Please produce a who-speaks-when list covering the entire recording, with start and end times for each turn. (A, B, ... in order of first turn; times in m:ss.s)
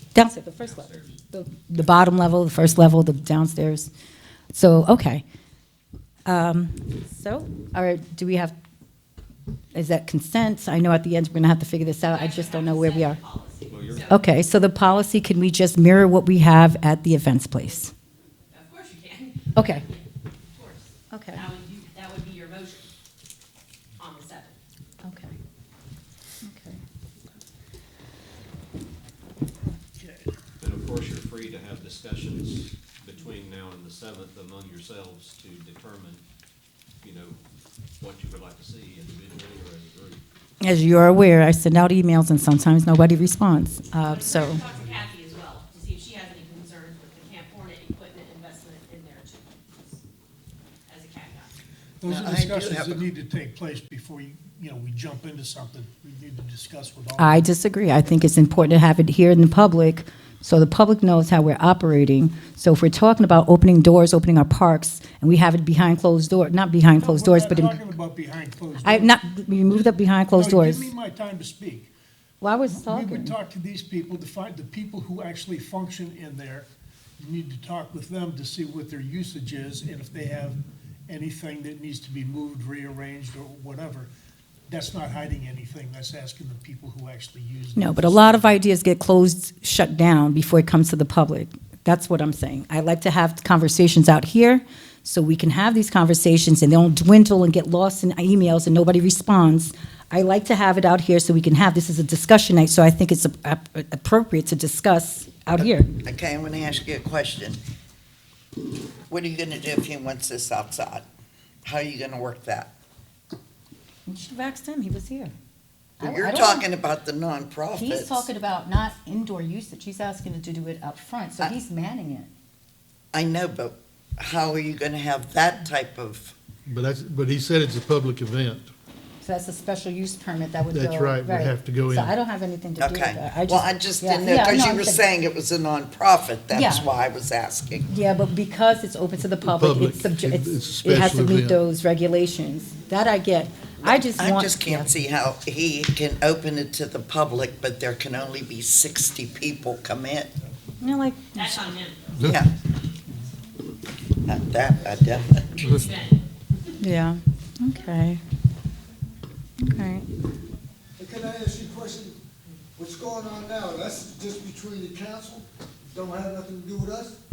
0:00.1-0:03.9 A
0:00.6-0:01.2 B
0:01.8-0:02.8 B
0:04.5-0:05.2 A
0:06.3-0:08.6 A
0:09.7-0:13.2 A
0:12.0-0:14.2 C
0:13.7-0:14.2 B
0:14.1-0:17.9 A
0:18.5-0:22.9 C
0:19.6-0:19.8 A
0:21.1-0:21.5 A
0:24.0-0:24.6 C
0:25.0-0:25.3 A
0:26.4-0:26.8 A
0:30.0-0:30.3 D
0:30.6-0:36.2 B
0:37.0-0:37.4 B
0:38.0-0:40.2 B
0:40.6-0:44.6 A
0:44.0-0:50.0 C
0:44.8-0:45.0 D
0:50.9-0:51.5 C
0:52.0-0:57.5 D
0:52.1-0:53.0 E
0:57.2-1:07.8 A
1:07.0-1:09.2 D
1:08.8-1:10.9 A
1:09.7-1:11.9 D
1:12.4-1:13.4 A
1:12.7-1:16.7 D
1:17.2-1:24.1 D
1:24.7-1:28.6 D
1:27.8-1:45.9 A
1:45.6-1:47.6 E
1:49.1-1:51.0 E
1:51.6-1:52.7 E
1:54.1-1:55.3 A
1:56.0-1:56.6 A
1:56.0-1:58.3 E
1:57.7-2:02.3 A
2:03.1-2:06.3 E
2:06.7-2:08.7 F
2:09.2-2:15.0 A
2:10.7-2:12.2 F
2:12.8-2:17.9 E
2:16.5-2:16.9 A
2:17.9-2:24.9 A
2:19.4-2:21.6 F
2:23.8-2:30.3 E
2:30.8-2:31.8 A
2:31.3-2:32.2 C
2:32.2-2:32.5 E
2:34.3-2:35.7 E
2:35.6-2:36.3 C
2:36.8-2:38.2 A
2:39.6-2:40.1 A
2:41.0-2:42.2 G
2:42.8-2:47.2 G